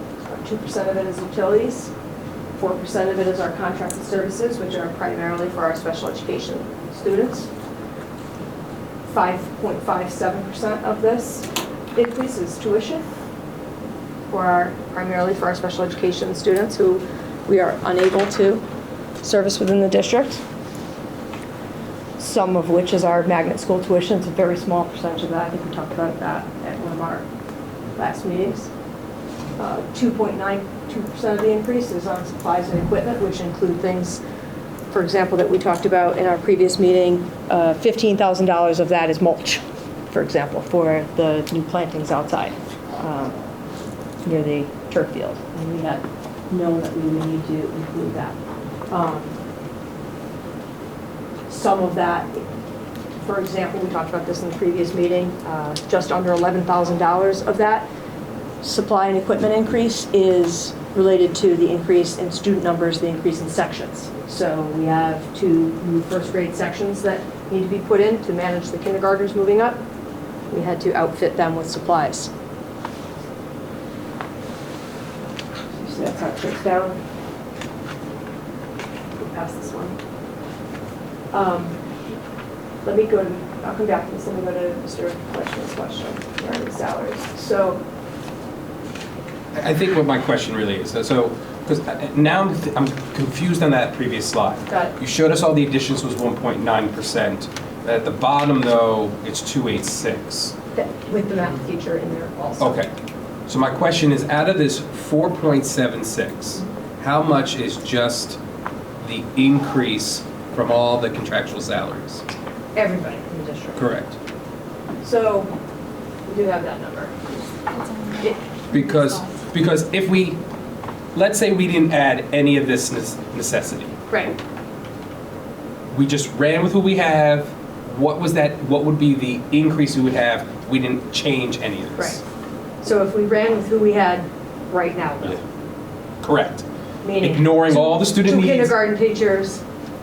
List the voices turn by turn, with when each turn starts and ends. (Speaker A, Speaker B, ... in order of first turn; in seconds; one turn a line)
Speaker A: 0.2-1.9
Speaker A: 2.6-7.5
Speaker A: 9.1-13.1
Speaker A: 14.3-18.6
Speaker A: 19.2-20.4
Speaker A: 22.2-27.3
Speaker A: 28.0-28.7
Speaker A: 29.6-34.2
Speaker A: 34.9-43.4
Speaker A: 44.2-48.4
Speaker A: 48.9-49.4
Speaker A: 51.5-52.4
Speaker A: 53.2-57.9
Speaker A: 58.6-69.8
Speaker A: 70.5-72.3
Speaker A: 75.7-77.0
Speaker A: 79.2-80.0
Speaker A: 81.3-81.8
Speaker A: 82.8-87.8
Speaker B: 89.5-100.5
Speaker A: 94.7-95.0
Speaker A: 100.8-102.8
Speaker B: 102.6-102.9
Speaker B: 103.5-108.4
Speaker B: 109.0-112.2
Speaker A: 112.8-113.9
Speaker B: 113.8-114.2
Speaker A: 115.0-115.5
Speaker A: 116.3-117.3
Speaker A: 118.0-119.3
Speaker B: 118.7-120.4
Speaker B: 121.1-123.9
Speaker A: 124.1-124.4
Speaker B: 125.9-132.2
Speaker A: 132.0-132.2
Speaker A: 132.8-135.4
Speaker B: 136.2-136.7
Speaker A: 137.0-139.6
Speaker B: 137.2-138.7